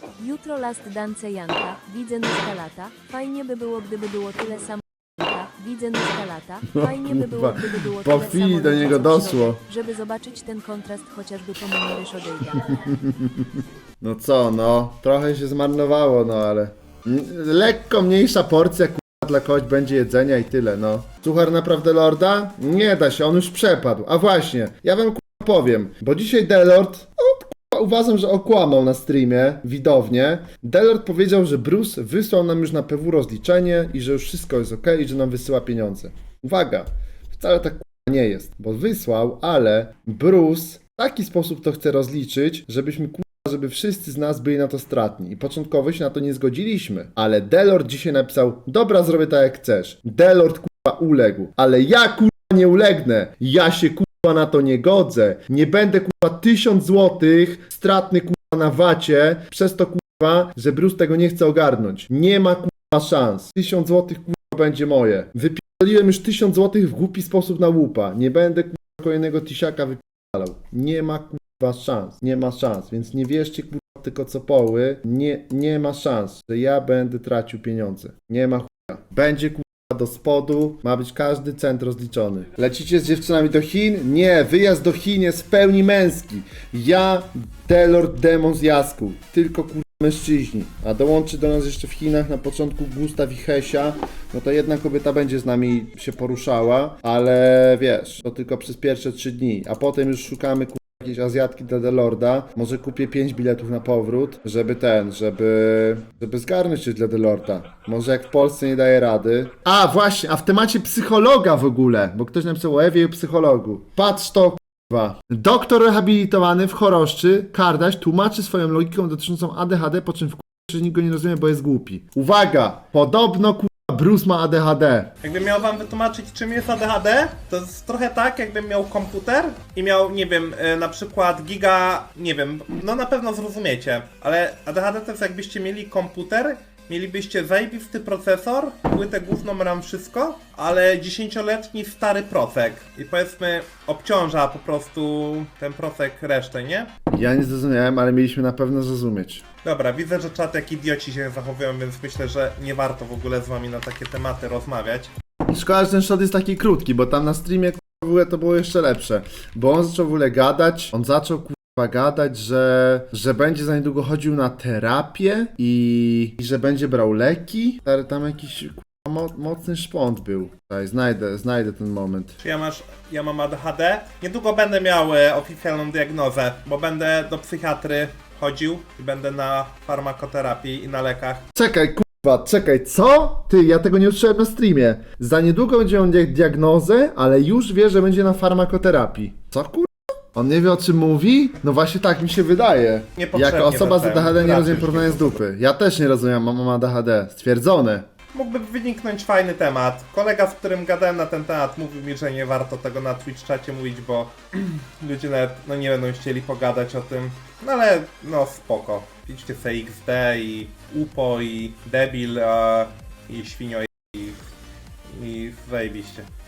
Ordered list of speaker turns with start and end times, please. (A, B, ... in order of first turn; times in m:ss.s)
0:00.2-0:13.0 A
0:06.7-0:09.6 B
0:12.5-2:05.1 B
2:05.2-2:26.9 C
2:27.1-2:29.4 B
2:29.6-2:35.1 C
2:35.5-2:52.4 B
2:52.4-3:01.4 C
3:01.5-3:18.1 B
3:13.2-3:15.4 C
3:18.3-3:34.4 C
3:35.1-3:36.3 C